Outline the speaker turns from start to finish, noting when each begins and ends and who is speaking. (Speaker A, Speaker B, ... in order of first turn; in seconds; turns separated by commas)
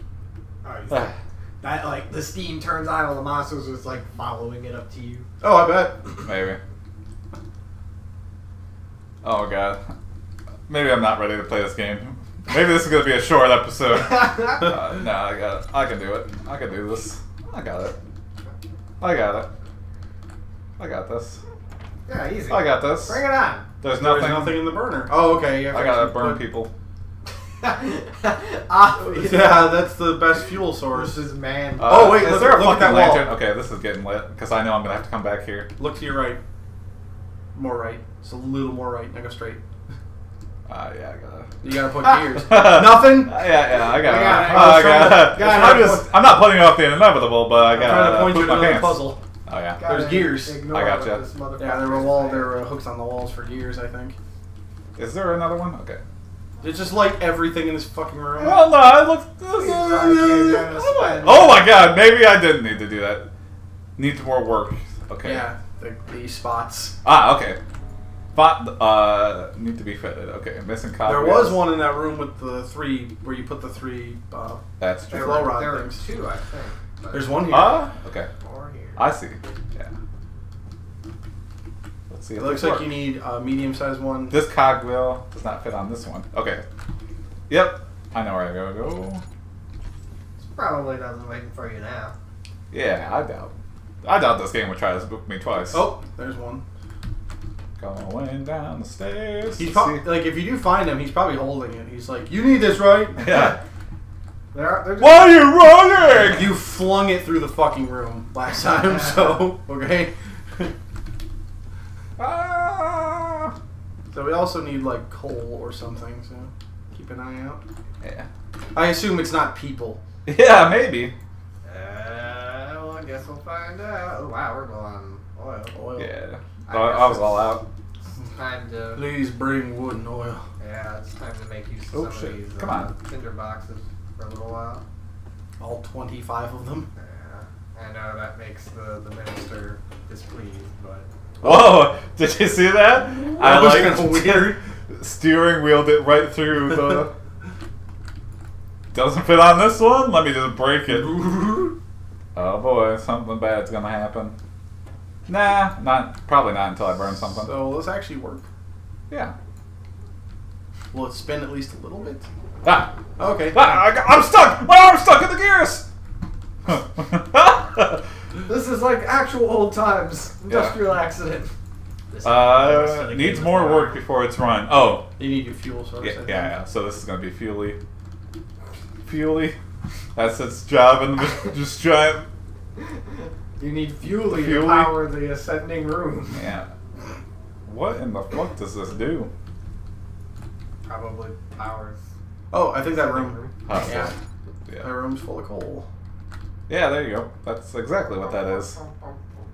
Speaker A: 0.6-5.3, Speaker B: 5.4-6.1, Speaker C: 6.2-6.6, Speaker C: 9.2-9.8, Speaker C: 10.7-17.9, Speaker A: 13.9-14.7, Speaker C: 19.0-19.5, Speaker C: 20.8-21.4, Speaker A: 22.1-23.6, Speaker C: 22.5-23.2, Speaker C: 23.8-24.8, Speaker B: 23.9-26.4, Speaker C: 25.6-26.7, Speaker A: 27.6-29.8, Speaker B: 29.0-31.2, Speaker A: 30.9-32.6, Speaker C: 31.8-35.7, Speaker B: 31.9-33.3, Speaker B: 35.8-36.4, Speaker B: 37.5-39.6, Speaker C: 40.7-50.1, Speaker B: 41.6-43.5, Speaker A: 43.7-46.0, Speaker B: 44.2-46.0, Speaker B: 47.7-49.2, Speaker A: 49.8-52.6, Speaker B: 49.9-50.6, Speaker C: 50.7-51.2, Speaker B: 51.6-54.1, Speaker C: 55.0-56.0, Speaker B: 56.6-58.6, Speaker C: 58.4-63.3, Speaker A: 59.5-61.7, Speaker C: 64.0-65.5, Speaker B: 65.2-66.9, Speaker C: 67.0-67.6, Speaker C: 68.3-71.7, Speaker B: 71.0-74.6, Speaker C: 74.8-75.6, Speaker A: 75.1-77.8, Speaker B: 75.2-76.0, Speaker B: 77.1-77.8, Speaker C: 77.4-78.3, Speaker A: 78.4-79.0, Speaker C: 79.0-79.9, Speaker C: 82.1-83.0, Speaker B: 82.3-84.3, Speaker C: 84.3-86.6, Speaker C: 87.5-89.2, Speaker A: 90.4-92.1, Speaker C: 92.7-95.9, Speaker B: 95.7-96.6, Speaker C: 97.8-100.0, Speaker B: 99.5-103.2, Speaker C: 103.2-103.6, Speaker A: 104.5-105.4, Speaker C: 105.0-106.5, Speaker B: 106.2-110.7, Speaker A: 108.8-109.4, Speaker C: 112.2-113.5, Speaker B: 114.1-117.6, Speaker C: 118.0-118.3, Speaker B: 118.7-120.0, Speaker C: 120.2-121.1, Speaker A: 121.6-125.8, Speaker B: 125.7-126.1, Speaker C: 126.0-127.7, Speaker A: 126.7-127.6, Speaker A: 128.3-129.0, Speaker B: 128.9-130.4, Speaker A: 130.6-134.8, Speaker C: 131.9-132.9, Speaker B: 135.6-136.9, Speaker A: 136.9-141.1, Speaker C: 141.4-147.1, Speaker B: 143.3-144.6, Speaker C: 148.9-151.4, Speaker B: 151.0-151.7, Speaker C: 152.3-154.3, Speaker C: 155.3-157.6, Speaker B: 157.3-158.4, Speaker C: 159.1-159.3, Speaker B: 160.9-162.3, Speaker C: 162.6-162.9, Speaker B: 163.2-163.8, Speaker C: 163.5-165.8, Speaker C: 166.7-168.0, Speaker A: 168.4-171.5, Speaker C: 170.5-170.8, Speaker A: 172.1-174.0, Speaker C: 172.2-175.1, Speaker B: 175.2-176.5, Speaker C: 176.0-177.8, Speaker C: 179.1-179.6, Speaker C: 180.1-182.2, Speaker A: 183.2-186.4, Speaker C: 184.2-184.9, Speaker C: 186.3-186.7, Speaker C: 187.7-189.3, Speaker A: 190.8-192.0, Speaker B: 192.5-194.1, Speaker A: 192.8-194.1, Speaker C: 193.7-194.1, Speaker C: 194.7-194.9, Speaker B: 194.8-195.9, Speaker C: 196.7-198.8, Speaker A: 198.2-199.2